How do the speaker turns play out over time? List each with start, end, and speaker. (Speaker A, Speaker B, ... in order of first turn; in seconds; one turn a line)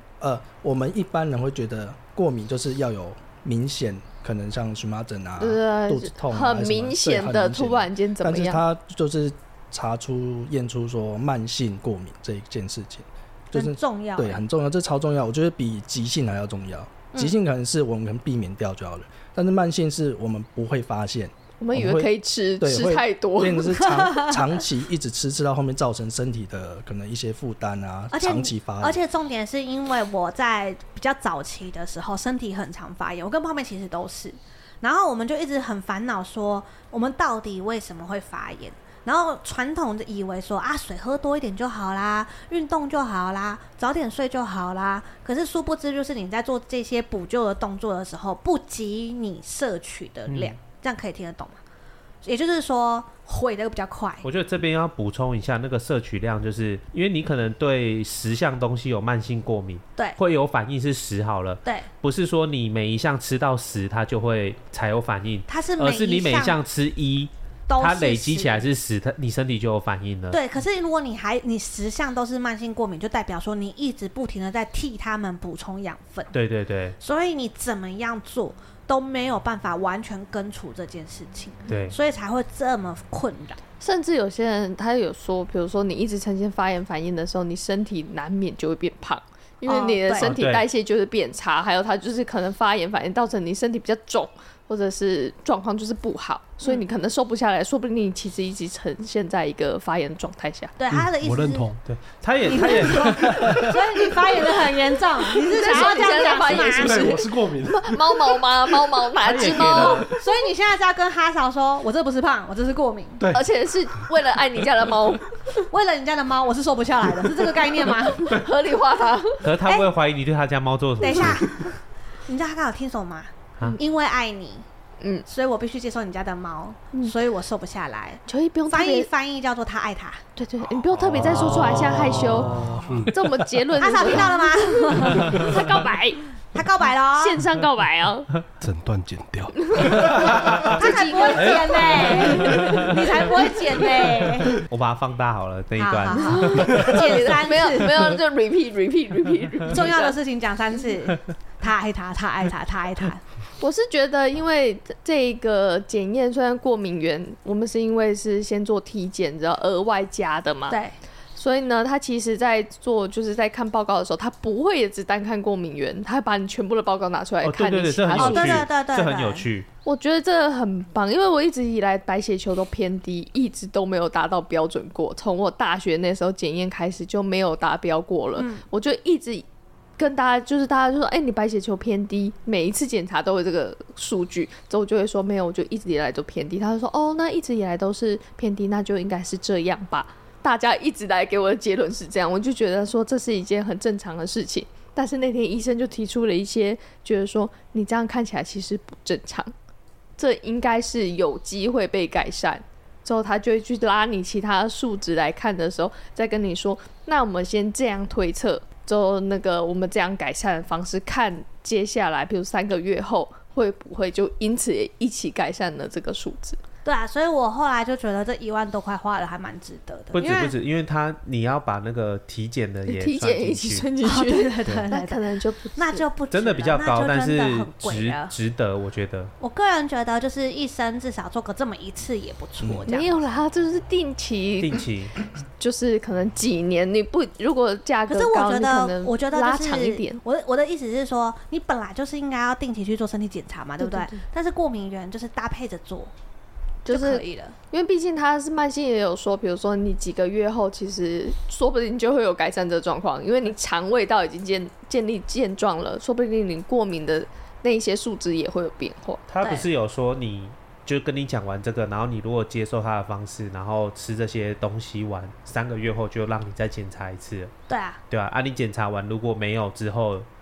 Speaker A: 0.2-29.0
Speaker B: 5.4-8.6
Speaker C: 13.5-14.4
Speaker B: 21.6-23.9
Speaker C: 23.9-24.4
Speaker C: 28.1-51.6
Speaker C: 52.2-54.3
Speaker D: 54.2-70.4
Speaker C: 65.5-66.6
Speaker C: 67.7-68.7
Speaker C: 70.3-76.3
Speaker D: 76.3-77.0
Speaker C: 77.0-83.6
Speaker D: 81.7-82.0
Speaker B: 83.8-100.7
Speaker C: 89.7-90.4
Speaker D: 90.2-90.7
Speaker C: 100.8-101.7
Speaker E: 100.9-101.8
Speaker D: 101.8-103.6
Speaker C: 102.5-107.1
Speaker E: 103.1-103.7
Speaker B: 105.4-110.1
Speaker E: 106.0-108.4
Speaker D: 109.2-110.1
Speaker C: 109.6-113.2
Speaker B: 113.3-115.3
Speaker C: 115.7-118.4
Speaker B: 118.2-119.4
Speaker D: 119.4-121.5
Speaker C: 119.7-119.9
Speaker C: 121.0-124.7
Speaker B: 125.0-125.2
Speaker C: 125.3-130.2
Speaker B: 128.3-129.1
Speaker B: 130.4-136.3
Speaker D: 131.1-132.8
Speaker E: 132.5-133.1
Speaker C: 133.8-135.7
Speaker C: 136.5-137.4
Speaker B: 137.2-138.3
Speaker E: 138.6-140.8
Speaker B: 139.6-143.0
Speaker D: 140.0-140.8
Speaker C: 140.7-144.6
Speaker D: 141.3-143.2
Speaker D: 144.5-147.2
Speaker C: 145.8-148.2
Speaker B: 146.2-150.2
Speaker C: 149.7-153.2
Speaker B: 153.6-160.8
Speaker C: 160.7-160.9
Speaker B: 161.3-168.7
Speaker D: 167.4-169.7
Speaker C: 168.2-169.5
Speaker B: 169.8-179.4
Speaker C: 178.4-178.6
Speaker B: 180.0-199.5
Speaker B: 200.2-216.6
Speaker C: 216.8-220.5
Speaker D: 220.1-223.9
Speaker B: 222.9-226.1
Speaker C: 224.0-225.2
Speaker C: 225.8-228.3
Speaker D: 226.3-229.3
Speaker C: 229.4-233.2
Speaker A: 232.6-232.9
Speaker B: 232.9-234.8
Speaker D: 234.6-235.1
Speaker B: 235.6-240.2
Speaker C: 238.1-246.1
Speaker B: 243.8-244.2
Speaker B: 246.8-259.2
Speaker C: 246.9-247.6
Speaker D: 259.3-267.5
Speaker C: 259.4-259.7
Speaker C: 267.7-268.0
Speaker D: 268.1-270.3